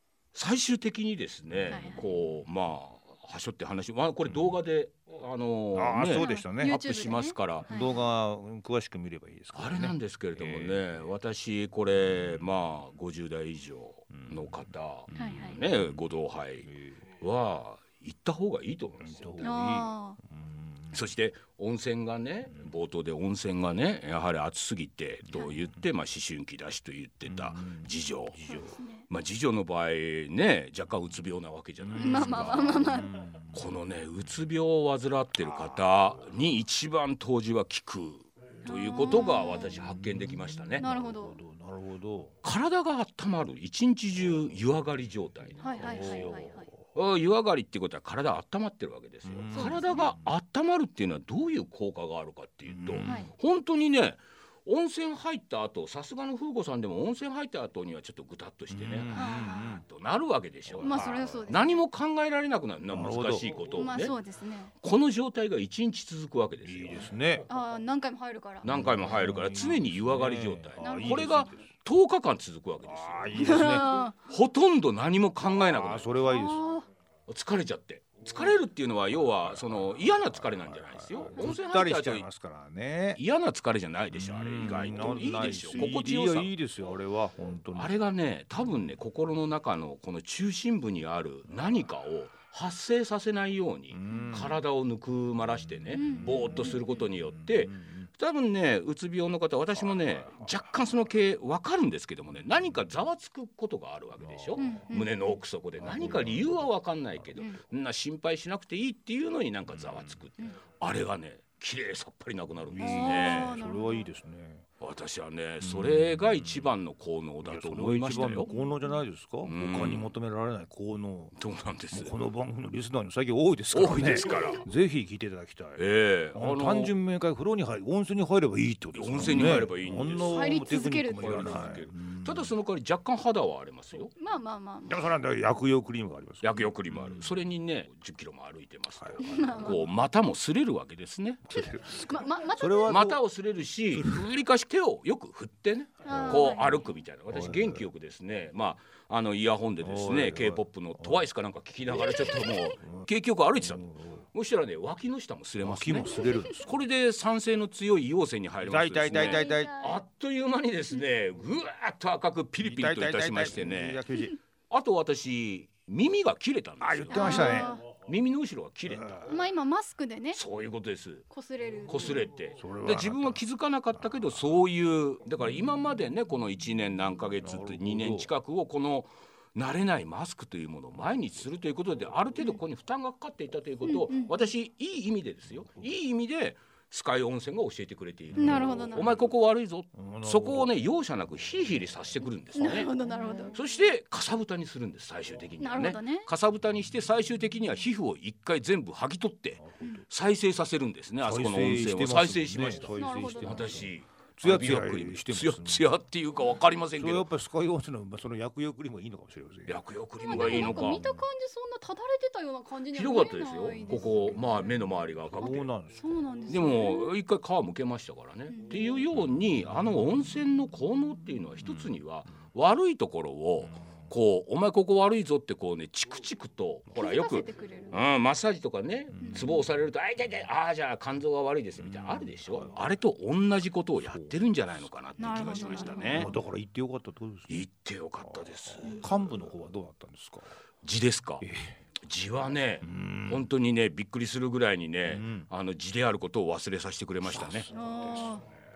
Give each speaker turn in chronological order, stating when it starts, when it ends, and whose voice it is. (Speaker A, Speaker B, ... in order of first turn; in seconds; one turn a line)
Speaker A: 0.3-7.7
Speaker B: 1.7-2.1
Speaker C: 4.3-4.6
Speaker C: 5.7-6.8
Speaker B: 6.1-8.1
Speaker C: 7.7-11.1
Speaker A: 9.5-19.6
Speaker C: 14.2-16.0
Speaker B: 15.2-15.6
Speaker C: 16.6-17.0
Speaker C: 19.0-21.0
Speaker B: 19.4-20.2
Speaker A: 20.9-28.4
Speaker C: 25.3-25.9
Speaker C: 27.3-28.8
Speaker B: 28.5-29.1
Speaker A: 29.1-40.9
Speaker C: 31.8-33.8
Speaker B: 32.0-33.1
Speaker C: 35.4-35.9
Speaker B: 38.6-39.8
Speaker C: 39.6-42.4
Speaker B: 40.8-41.4
Speaker A: 42.4-64.2
Speaker B: 45.6-46.7
Speaker C: 45.8-46.6
Speaker C: 49.3-50.3
Speaker B: 49.5-50.1
Speaker C: 52.7-53.3
Speaker B: 53.0-53.3
Speaker C: 58.7-59.8
Speaker B: 59.1-59.8
Speaker C: 60.7-61.6
Speaker B: 60.8-61.8
Speaker C: 62.9-63.6
Speaker B: 63.7-64.7
Speaker A: 64.8-67.1
Speaker C: 66.6-67.5
Speaker B: 67.5-68.7
Speaker A: 68.6-76.1
Speaker C: 68.7-71.7
Speaker B: 70.8-71.5
Speaker C: 72.8-74.1
Speaker B: 73.3-74.1
Speaker C: 75.4-76.7
Speaker B: 76.2-76.9
Speaker A: 77.3-82.3
Speaker C: 79.2-83.2
Speaker A: 83.2-86.5
Speaker C: 84.1-87.9
Speaker A: 87.7-113.6
Speaker C: 93.9-94.6
Speaker B: 94.1-94.4
Speaker C: 95.9-98.1
Speaker B: 95.9-96.9
Speaker C: 99.8-100.6
Speaker C: 104.2-104.8
Speaker B: 104.6-105.4
Speaker C: 105.8-107.3
Speaker C: 109.7-110.2
Speaker C: 112.7-114.7
Speaker B: 112.8-114.1
Speaker A: 114.8-118.5
Speaker C: 115.6-116.7
Speaker C: 117.4-121.3
Speaker B: 118.1-119.0
Speaker A: 119.4-120.1
Speaker A: 121.3-122.1
Speaker C: 121.9-132.5
Speaker A: 123.7-124.7
Speaker A: 125.8-127.0
Speaker A: 128.9-134.1
Speaker B: 130.3-131.6
Speaker B: 134.2-135.0
Speaker C: 134.9-137.4
Speaker A: 136.4-141.7
Speaker C: 139.0-139.8
Speaker B: 139.2-139.9
Speaker C: 141.5-143.2
Speaker B: 141.5-143.0
Speaker A: 142.9-164.0
Speaker C: 143.9-144.2
Speaker B: 146.0-146.8
Speaker C: 146.1-146.8
Speaker C: 147.3-147.9
Speaker C: 149.8-151.3
Speaker C: 151.9-153.1
Speaker B: 152.0-152.7
Speaker C: 153.6-154.2
Speaker C: 155.6-156.8
Speaker B: 156.1-156.4
Speaker C: 158.6-159.8
Speaker B: 159.1-160.0
Speaker C: 162.6-164.4
Speaker A: 164.7-169.4
Speaker C: 166.8-167.8
Speaker B: 167.1-167.8
Speaker C: 168.9-169.4
Speaker B: 169.3-170.4
Speaker A: 170.3-171.3
Speaker B: 171.3-172.2
Speaker A: 171.9-192.9
Speaker C: 172.6-174.7
Speaker C: 177.4-178.3
Speaker B: 183.8-184.3
Speaker C: 188.3-189.3
Speaker B: 188.4-189.1
Speaker C: 189.9-190.8
Speaker B: 192.6-193.6
Speaker C: 193.1-193.4
Speaker A: 193.5-207.3
Speaker B: 195.6-196.3
Speaker C: 199.6-200.1
Speaker C: 201.2-205.9
Speaker B: 202.9-203.6
Speaker C: 207.0-211.3
Speaker A: 209.7-211.1
Speaker B: 210.2-214.7
Speaker A: 212.9-215.7
Speaker C: 214.4-214.7
Speaker C: 215.3-216.1
Speaker B: 215.4-217.1
Speaker A: 216.5-236.3
Speaker B: 218.5-219.0
Speaker C: 219.2-220.6
Speaker C: 221.5-222.0
Speaker C: 223.7-224.1
Speaker B: 226.9-228.0
Speaker C: 229.1-229.7
Speaker B: 229.2-229.5
Speaker C: 231.8-232.9
Speaker C: 234.0-237.6
Speaker B: 235.2-236.3
Speaker A: 237.5-239.2
Speaker C: 238.2-240.5
Speaker A: 240.8-241.4
Speaker C: 241.4-241.8
Speaker A: 242.0-247.7
Speaker C: 242.8-243.5
Speaker C: 245.1-245.5
Speaker C: 247.2-248.4
Speaker B: 247.7-248.5